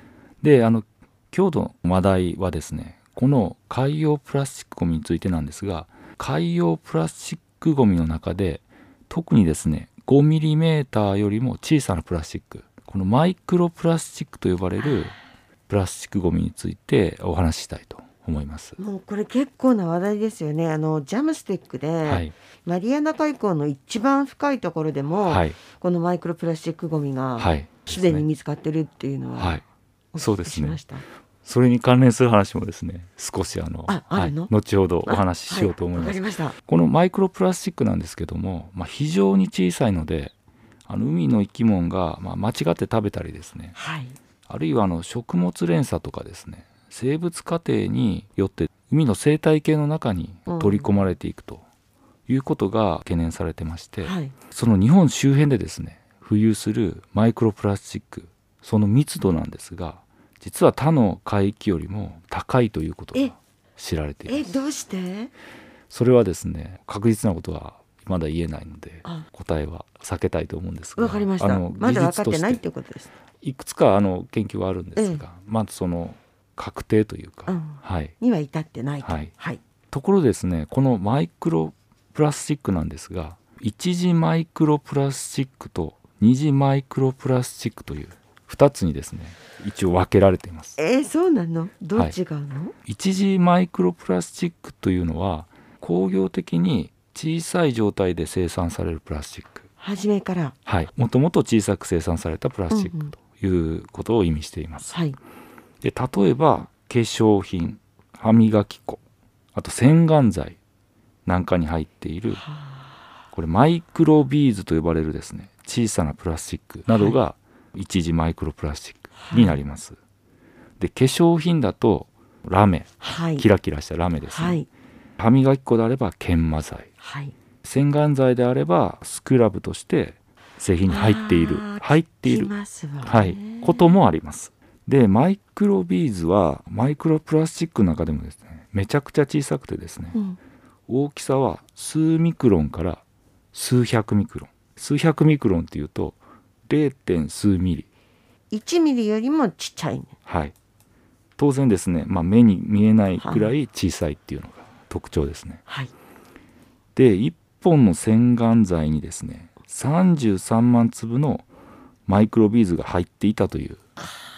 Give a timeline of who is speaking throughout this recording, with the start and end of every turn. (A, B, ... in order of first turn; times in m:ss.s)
0:00.4-0:15.2 A
0:15.7-0:18.8 A
0:18.8-0:29.6 B
0:22.0-0:22.3 A
0:25.2-0:25.6 A
0:27.4-0:28.3 A
0:29.4-0:29.6 A
0:30.1-0:31.0 B
0:30.2-0:30.8 A
0:31.4-0:40.3 A
0:33.9-0:34.5 B
0:35.0-0:36.6 B
0:40.8-0:43.8 A
0:43.7-0:44.2 B
0:44.5-0:51.6 A
0:50.5-0:50.9 B
0:52.3-1:04.5 A
0:54.0-0:54.3 B
1:04.2-1:05.3 B
1:05.9-1:12.6 A
1:11.0-1:13.1 B
1:13.4-1:18.1 A
1:15.0-1:15.2 B
1:17.5-1:19.6 B
1:19.0-1:19.3 A
1:19.9-1:30.8 A
1:30.8-1:32.7 B
1:32.8-1:39.6 A
1:39.8-1:40.5 B
1:40.6-1:44.9 A
1:42.7-1:43.1 B
1:44.8-1:45.2 B
1:45.8-1:49.0 A
1:49.5-1:50.6 A
1:51.2-1:52.4 A
1:52.4-1:53.0 B
1:53.3-2:00.0 A
1:56.9-1:57.2 B
1:59.2-1:59.6 B
2:00.8-2:04.6 A
2:03.0-2:03.4 B
2:04.3-2:04.7 B
2:05.2-2:06.9 A
2:07.0-2:07.3 B
2:07.6-2:12.5 A
2:10.9-2:13.9 B
2:13.0-2:20.2 A
2:20.9-2:26.2 A
2:26.7-2:27.9 A
2:28.5-2:30.1 B
2:30.2-2:30.5 A
2:31.4-2:35.6 A
2:33.2-2:33.5 B
2:35.7-2:35.9 B
2:37.0-2:41.4 A
2:42.0-2:43.8 A